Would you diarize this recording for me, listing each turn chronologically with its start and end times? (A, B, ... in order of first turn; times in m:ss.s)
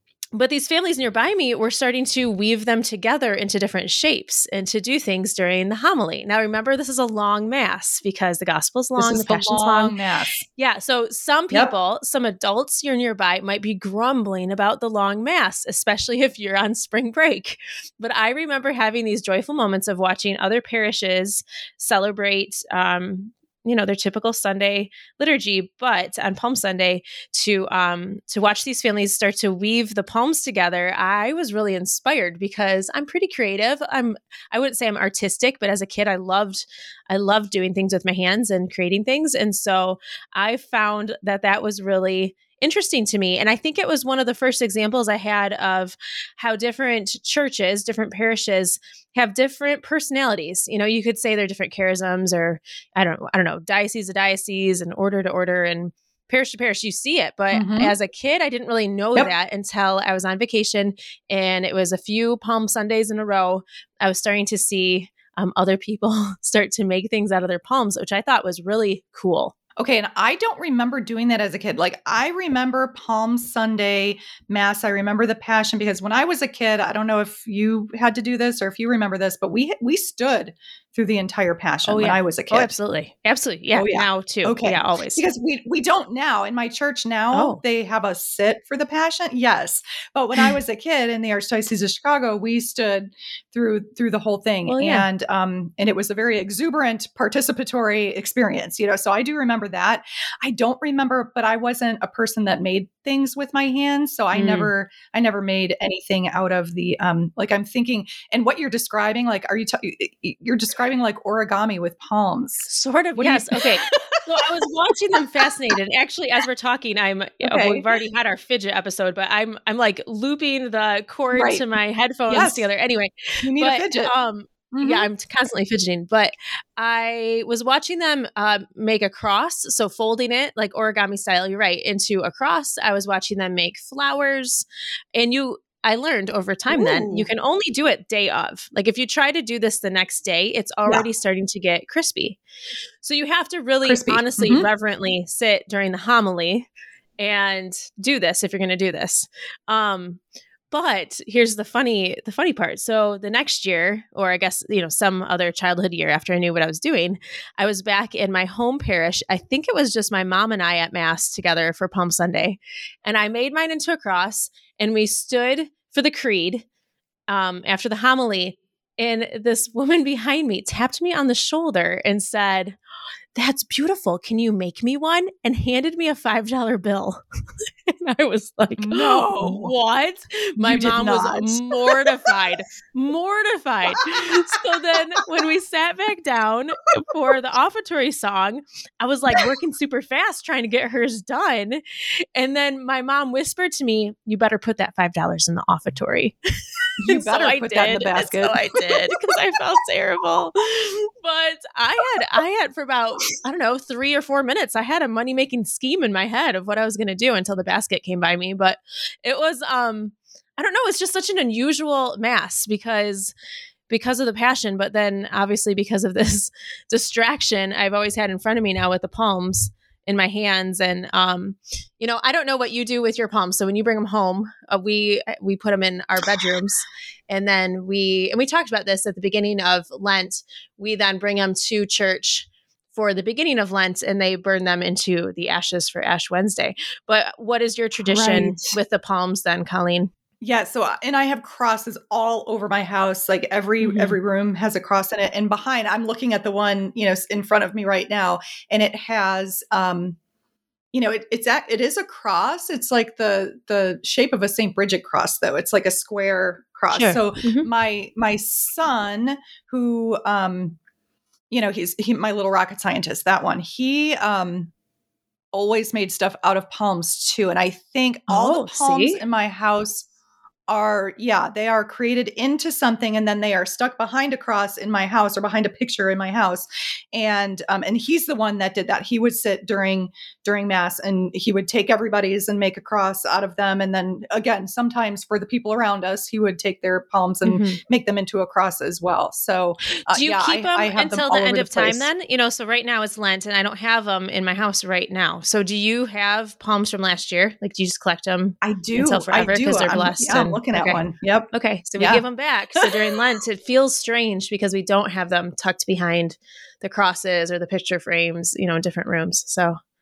0:00.3-0:10.0 A
0:09.0-0:10.4 B
0:10.5-1:09.5 A
0:57.5-0:57.9 B
1:09.8-1:22.7 B
1:21.8-1:25.3 A
1:23.7-1:54.2 B
1:27.3-1:27.6 A
1:34.7-1:35.1 A
1:44.3-1:44.7 A
1:52.7-2:22.4 A
1:55.2-1:55.5 B
1:57.4-1:57.8 B
2:01.3-2:01.6 B
2:02.3-2:02.6 B
2:03.4-2:04.1 B
2:04.7-2:05.1 B
2:16.7-2:17.2 B
2:23.0-2:26.7 A
2:23.8-2:24.7 B
2:27.2-2:30.2 A
2:30.7-2:46.6 A
2:47.3-2:52.8 A
2:53.3-2:57.2 A
2:57.9-3:11.8 A
2:58.8-2:59.7 B
3:00.6-3:02.3 B
3:12.4-3:16.4 A
3:17.0-3:19.4 B
3:17.1-3:33.3 A
3:33.9-4:00.1 A
3:58.0-3:58.7 B
4:00.4-4:10.2 B
4:03.8-4:04.2 A
4:10.9-4:20.7 B
4:16.9-4:17.7 A
4:21.5-4:24.7 B
4:25.5-4:30.0 B
4:28.3-4:29.2 A
4:30.7-4:52.1 B
4:47.4-4:47.8 A
4:50.1-5:09.8 A
4:58.6-5:02.2 B
5:02.8-5:03.2 B